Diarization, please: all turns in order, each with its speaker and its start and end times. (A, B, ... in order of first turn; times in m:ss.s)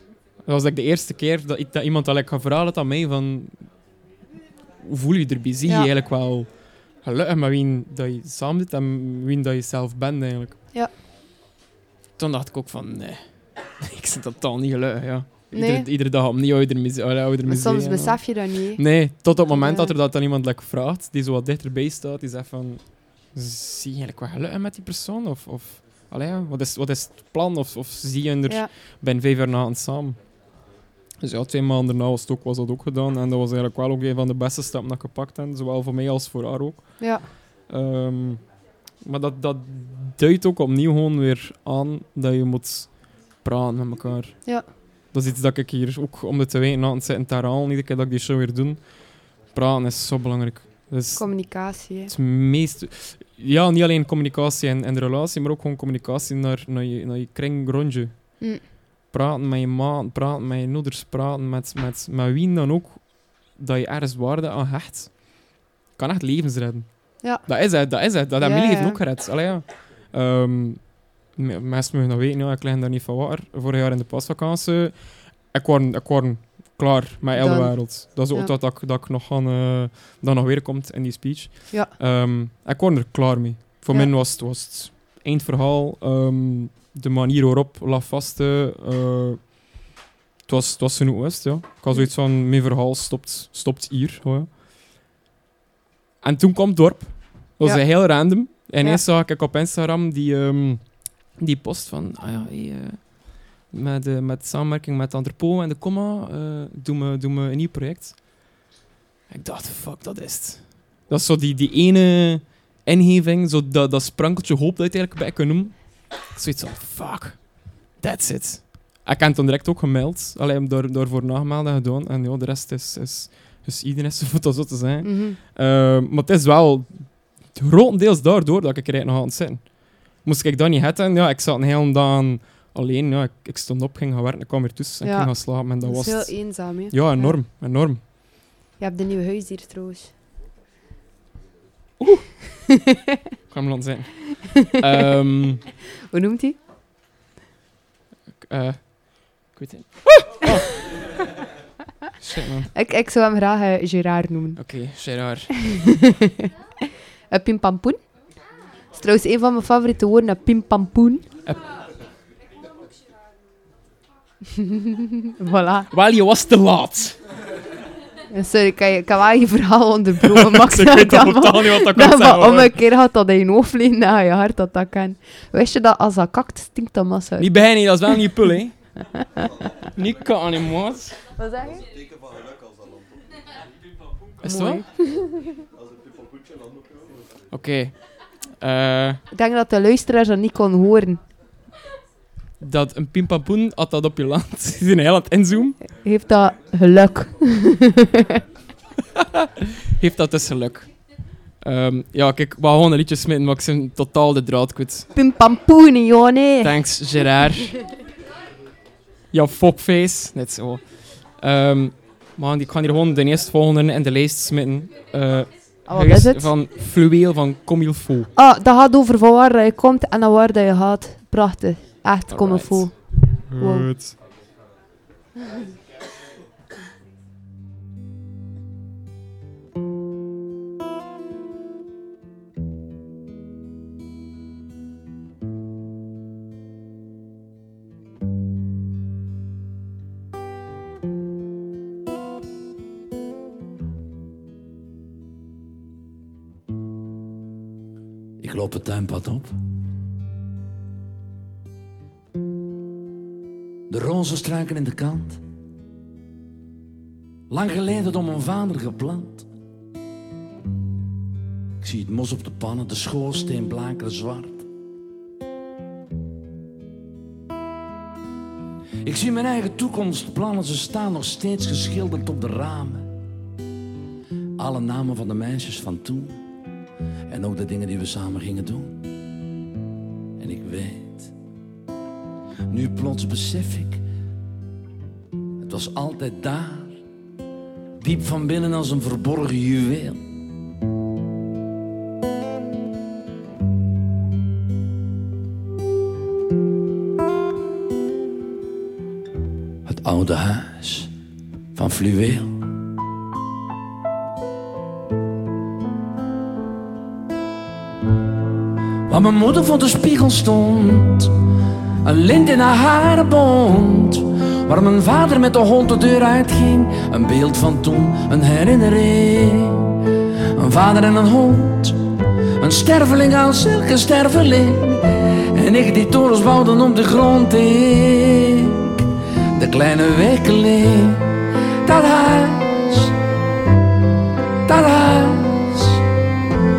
0:00.4-0:03.9 A
0:04.8-0:10.6 A
0:12.2-0:30.4 A
0:15.5-0:15.9 B
0:17.5-0:19.9 B
0:31.2-0:58.6 A
0:37.0-0:37.2 B
0:51.2-0:52.1 B
0:59.1-1:29.7 A
1:07.2-1:09.0 B
1:17.4-1:18.5 B
1:30.4-1:34.5 A
1:36.2-1:48.4 A
1:37.6-1:39.0 B
1:49.3-2:18.0 A
2:05.0-2:05.4 B
2:15.0-2:17.4 B
2:18.8-2:20.1 B
2:22.0-2:22.3 A
2:23.5-2:25.6 A
2:26.1-2:26.6 B
2:28.4-2:30.7 A
2:32.2-2:32.7 A
2:32.7-2:34.8 B
2:34.6-2:35.6 A
2:35.7-2:36.2 B
2:37.3-2:38.1 B
2:38.9-2:41.2 B
2:41.4-2:41.7 A
2:45.4-2:45.9 B
2:45.9-2:47.2 A
2:48.3-2:57.8 B
2:50.3-2:52.7 A
2:57.4-2:59.0 A
2:59.1-2:59.4 B
3:00.0-3:01.2 A
3:01.4-3:01.8 B
3:04.4-3:04.9 A
3:04.4-3:05.5 B
3:07.5-3:09.2 A
3:09.3-3:11.2 B
3:12.6-3:15.8 A
3:16.0-3:18.2 B
3:19.2-3:25.1 A
3:25.1-3:26.8 B
3:26.6-3:27.8 A
3:29.3-3:38.3 A
3:35.8-3:36.5 B
3:38.4-3:43.9 B
3:42.3-3:44.2 A
4:08.4-4:09.6 C
4:13.9-4:15.4 C
4:17.5-4:19.5 C
4:21.8-4:24.6 C
4:29.0-4:33.1 C
4:34.6-4:36.4 C
4:37.3-4:39.0 C
4:40.4-4:41.3 C
4:42.7-4:44.0 C
4:45.6-4:47.0 C
4:48.0-4:50.3 C
4:59.8-5:01.1 C
5:01.8-5:02.5 C
5:09.1-5:11.3 C
5:12.0-5:19.9 C
5:20.5-5:22.0 C
5:22.6-5:28.8 C
5:29.6-5:31.3 C
5:31.8-5:33.1 C
5:34.7-5:36.0 C